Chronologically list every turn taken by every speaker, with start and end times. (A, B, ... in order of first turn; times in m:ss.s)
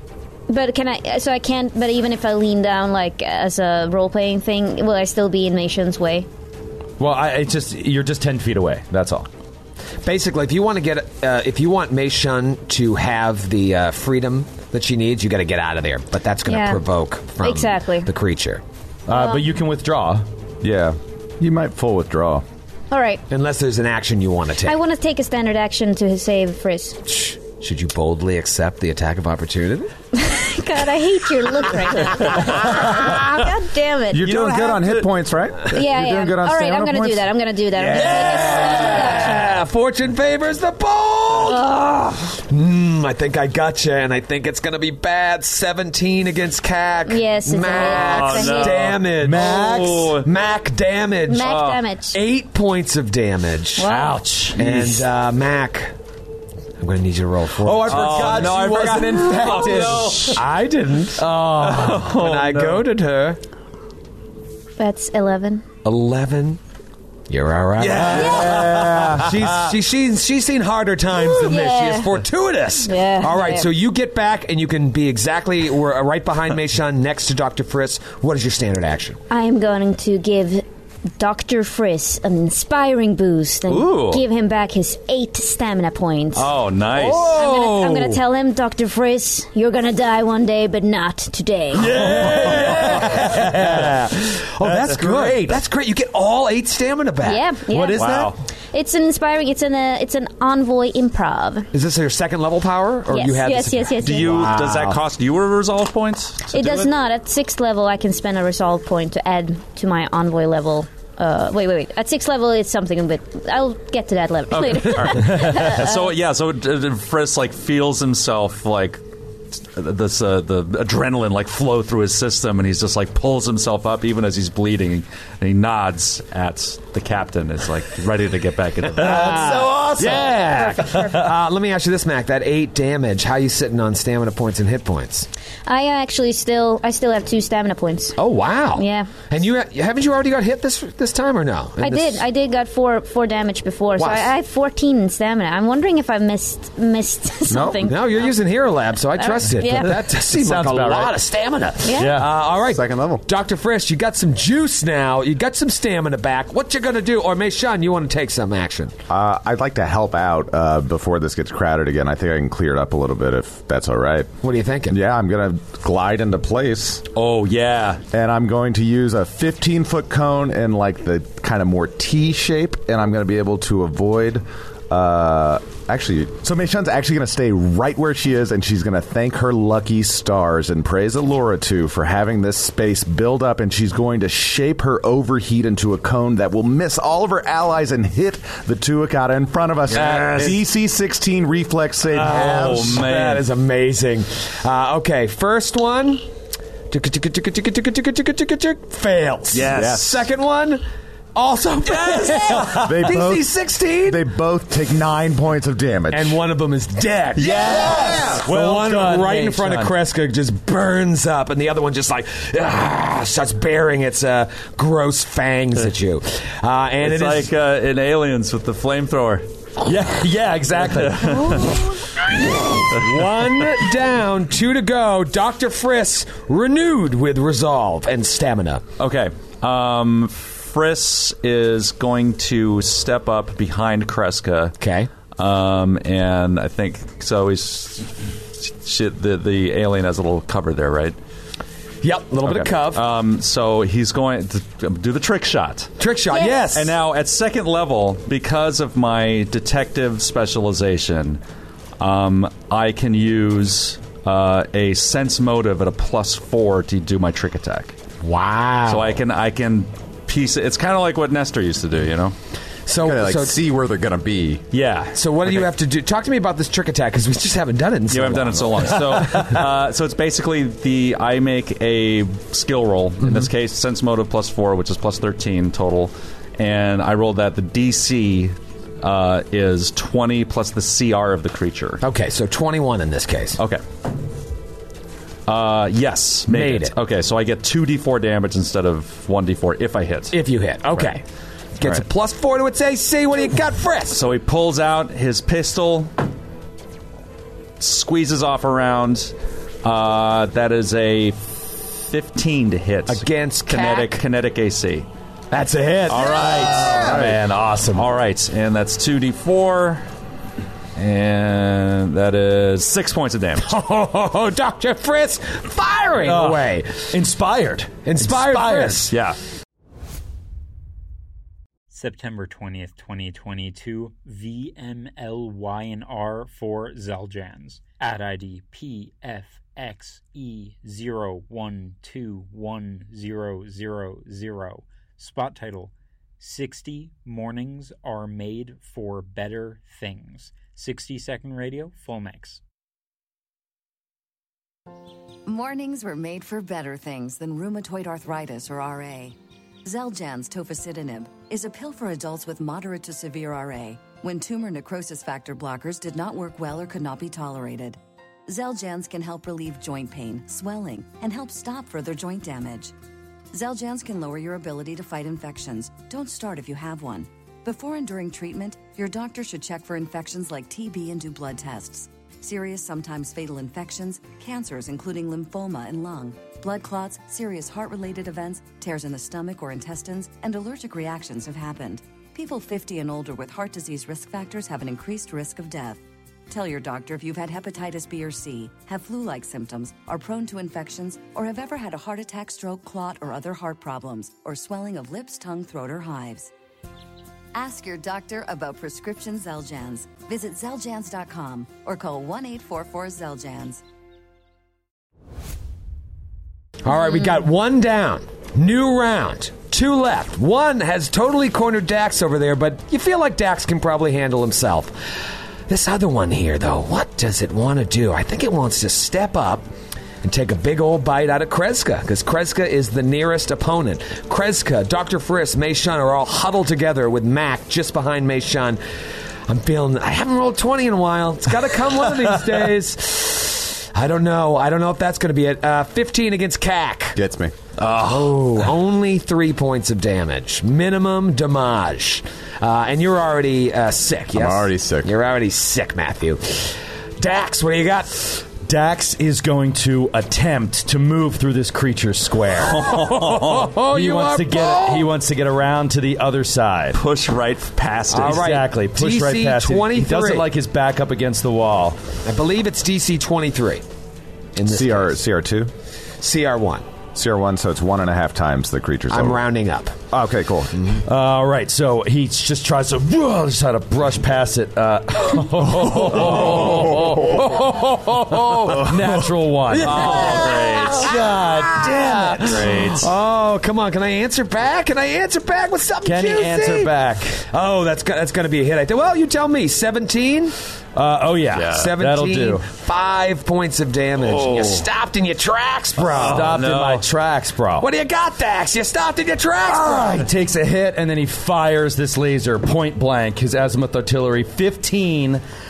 0:00.5-0:06.3 A
0:07.0-0:09.3 B
0:10.0-0:18.6 C
0:16.4-0:16.8 A
0:17.4-0:18.1 A
0:19.1-0:20.2 B
0:19.1-0:19.4 A
0:20.6-0:22.4 D
0:22.9-0:23.2 A
0:23.3-0:24.8 C
0:24.6-0:27.0 A
0:27.0-0:29.9 C
0:30.1-0:34.3 A
0:34.1-0:37.3 D
0:34.2-0:35.1 E
0:35.7-0:39.6 A
0:37.8-0:51.5 C
0:41.4-0:41.9 A
0:47.0-0:48.8 A
0:47.7-0:50.3 E
0:49.2-0:50.1 B
0:51.3-0:52.2 A
0:51.4-0:51.8 E
0:52.1-0:53.9 C
0:53.8-0:54.2 A
0:53.8-0:54.9 B
0:54.6-0:55.9 C
0:56.8-0:58.5 C
0:57.6-1:00.4 B
0:57.9-1:00.4 E
1:00.3-1:01.3 C
1:01.2-1:02.1 B
1:01.6-1:02.8 E
1:02.0-1:03.4 C
1:04.8-1:05.6 A
1:05.8-1:06.6 C
1:07.3-1:19.2 C
1:07.8-1:09.3 E
1:07.9-1:09.3 B
1:08.1-1:08.6 A
1:11.4-1:12.2 A
1:12.8-1:13.7 A
1:19.3-1:20.6 A
1:21.2-1:26.5 A
1:23.7-1:24.2 E
1:26.3-1:27.4 E
1:27.0-1:28.2 C
1:27.3-1:31.9 A
1:31.7-1:34.1 B
1:31.9-1:37.5 C
1:34.6-1:35.6 B
1:37.2-1:38.0 A
1:37.7-1:38.4 B
1:38.0-1:38.3 E
1:38.7-1:41.7 A
1:41.7-1:45.0 C
1:43.1-1:44.5 A
1:44.0-1:46.9 E
1:46.5-1:56.1 A
1:54.5-1:59.0 E
1:55.1-1:55.7 B
1:59.5-2:09.5 E
2:09.0-2:11.2 B
2:09.0-2:15.3 C
2:15.6-2:18.2 A
2:18.2-2:22.2 C
2:18.7-2:19.1 A
2:21.8-2:28.4 A
2:24.0-2:24.3 C
2:27.5-2:27.9 D
2:27.8-2:38.9 C
2:29.2-2:30.0 A
2:30.1-2:31.1 B
2:31.8-2:32.2 A
2:32.0-2:32.3 B
2:32.7-2:33.2 F
2:39.1-2:44.3 D
2:44.4-2:45.0 C
2:44.9-2:47.0 D
2:47.1-2:48.0 E
2:48.1-3:13.0 D
3:09.9-3:10.6 E
3:10.0-3:10.5 C
3:12.1-3:13.4 E
3:12.2-3:16.2 C
3:16.9-3:20.8 C
3:19.5-3:20.3 E
3:19.7-3:20.2 D
3:21.3-3:24.2 C
3:21.9-3:22.9 E
3:22.7-3:26.4 D
3:26.1-3:37.5 C
3:27.4-3:29.9 B
3:27.5-3:27.9 E
3:27.9-3:28.4 D
3:37.0-3:39.4 E
3:39.8-3:41.6 B
3:40.9-3:41.8 E
3:42.5-3:48.8 C
3:43.0-3:43.4 E
3:49.0-3:54.8 E
3:54.8-3:55.1 C
3:55.4-4:01.2 E
4:02.0-4:03.0 C
4:02.4-4:05.9 E
4:06.0-4:07.0 C
4:06.3-4:06.6 A
4:06.7-4:11.4 E
4:12.0-4:17.9 E
4:18.2-4:19.2 C
4:18.8-4:22.3 E
4:22.9-4:23.6 C
4:23.0-4:24.6 F
4:24.7-4:25.7 E
4:25.1-4:29.6 C
4:28.1-4:42.0 E
4:33.2-4:33.5 C
4:42.0-4:43.6 C
4:45.5-4:50.4 E
4:46.5-4:46.9 C
4:50.3-4:51.2 C
4:51.8-4:54.2 C
4:54.1-4:56.2 E
4:57.8-5:05.1 E
5:03.1-5:04.2 C
5:05.5-5:07.2 C
5:06.1-5:07.4 E
5:06.1-5:08.1 B
5:07.9-5:10.0 E
5:11.0-5:13.7 E
5:13.6-5:16.9 C
5:16.2-5:19.2 B
5:18.0-5:19.1 C
5:21.9-5:42.6 G
5:45.4-6:02.9 H
6:03.5-6:36.5 H
6:37.5-6:43.8 H
6:46.8-6:55.1 C
6:55.7-6:59.7 C
7:00.2-7:08.8 C
7:09.5-7:17.2 C
7:17.1-7:17.5 F
7:17.8-7:28.4 C
7:24.3-7:25.1 F
7:28.6-7:33.0 B
7:32.6-7:33.7 E
7:33.0-7:35.1 C
7:33.8-7:37.0 B
7:36.9-7:38.5 E
7:38.1-7:40.5 C
7:38.2-7:42.0 B
7:42.2-7:43.8 C
7:44.5-7:45.2 C
7:44.6-7:45.7 D
7:46.2-7:46.9 C
7:47.1-7:49.4 D
7:49.1-7:50.0 C
7:50.1-7:50.8 D
7:51.0-8:03.0 B
7:56.0-7:57.7 C
7:58.3-7:59.0 C
7:59.7-8:10.6 C
7:59.8-8:01.1 E
8:02.4-8:03.0 E
8:06.0-8:07.4 B
8:11.0-8:12.6 B
8:11.5-8:11.9 E
8:11.7-8:16.6 C
8:14.2-8:14.9 E
8:16.0-8:17.0 E
8:16.1-8:17.8 B
8:17.8-8:20.3 C
8:19.7-8:25.4 B